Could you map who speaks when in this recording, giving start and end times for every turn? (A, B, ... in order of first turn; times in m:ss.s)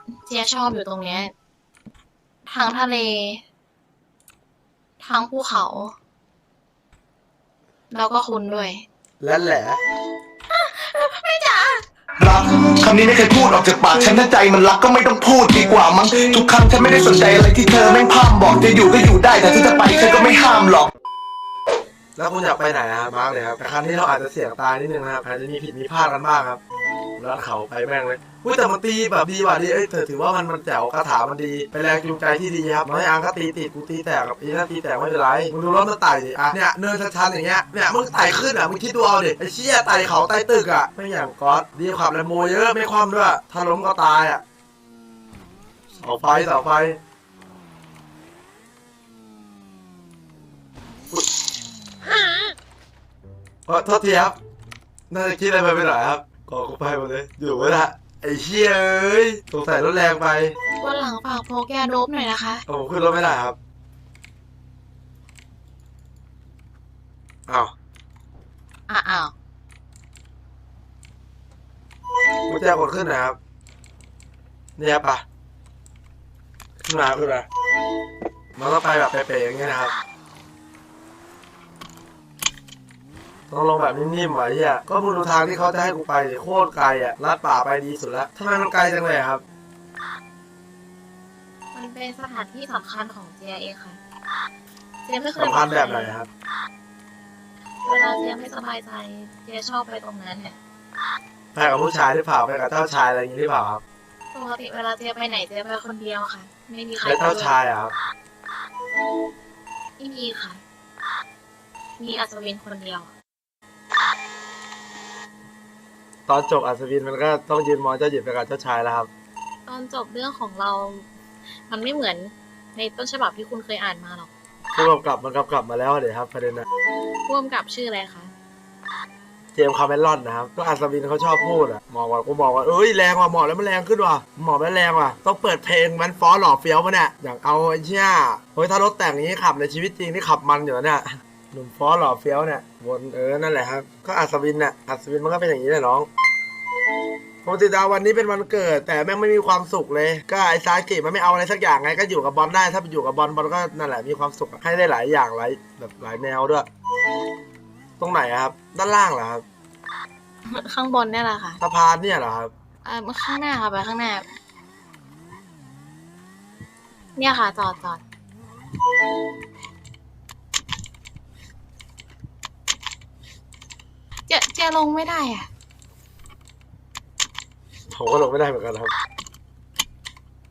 0:00.2-0:01.3 A
0:02.4-0:03.4 A
0:05.0-0:05.9 A
0:07.9-0:08.8 A
0:09.2-0:09.8 B
0:10.5-0:11.8 A
0:12.2-0:20.9 C
0:22.2-0:26.6 B
0:27.2-0:44.4 B
0:46.0-0:47.0 B
0:53.7-0:54.4 B
0:55.1-1:00.5 B
1:00.8-1:02.6 A
1:02.7-1:03.6 B
1:08.9-1:09.3 A
1:12.5-1:13.4 B
1:14.8-1:15.2 B
1:16.8-1:17.5 B
1:18.6-1:19.9 B
1:23.5-1:29.4 B
1:31.7-1:34.0 A
1:35.0-1:36.2 A
1:35.4-1:36.3 B
1:37.8-1:40.5 A
1:41.5-1:43.8 B
1:44.3-1:47.5 A
1:47.0-1:47.9 B
1:50.0-1:50.6 A
1:52.0-1:53.1 A
1:56.3-1:59.1 B
1:59.6-2:01.0 A
2:01.7-2:04.3 A
2:04.7-2:06.6 B
2:07.3-2:08.3 A
2:09.5-2:26.1 B
2:27.4-2:36.7 B
2:38.0-2:39.4 B
2:40.5-2:41.6 A
2:41.6-2:42.5 B
2:42.8-2:44.2 A
2:47.2-2:48.0 A
2:54.3-2:55.5 A
2:57.9-2:58.9 B